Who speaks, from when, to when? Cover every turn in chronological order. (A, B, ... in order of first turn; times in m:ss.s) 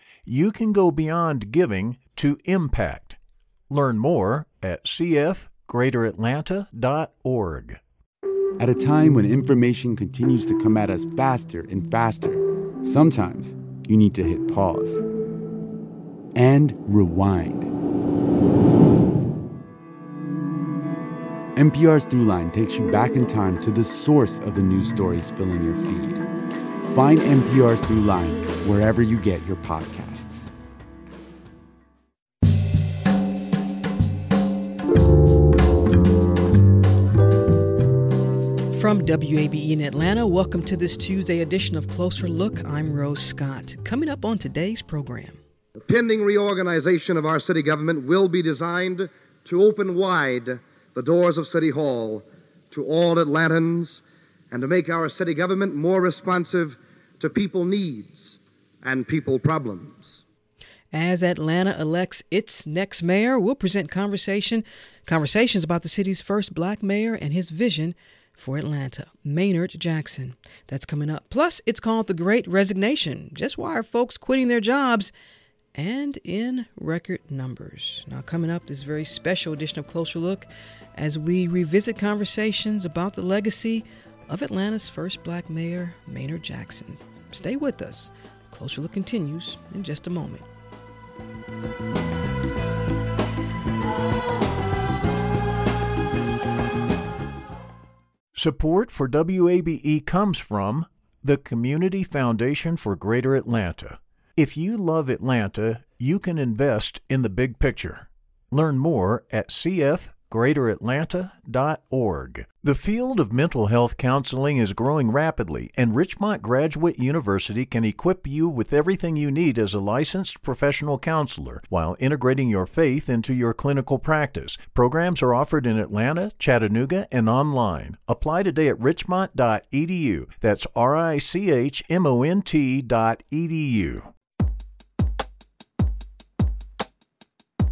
0:00.3-0:03.2 A
0:03.7-0:07.8 A
0:08.6-0:15.0 B
0:16.4-0:17.7 B
0:21.6-0:26.2 B
0:26.9-0:30.5 B
0:38.7-0:45.4 C
0:45.8-1:00.2 D
1:00.9-1:15.1 C
1:15.8-1:30.4 C
1:38.4-2:14.1 A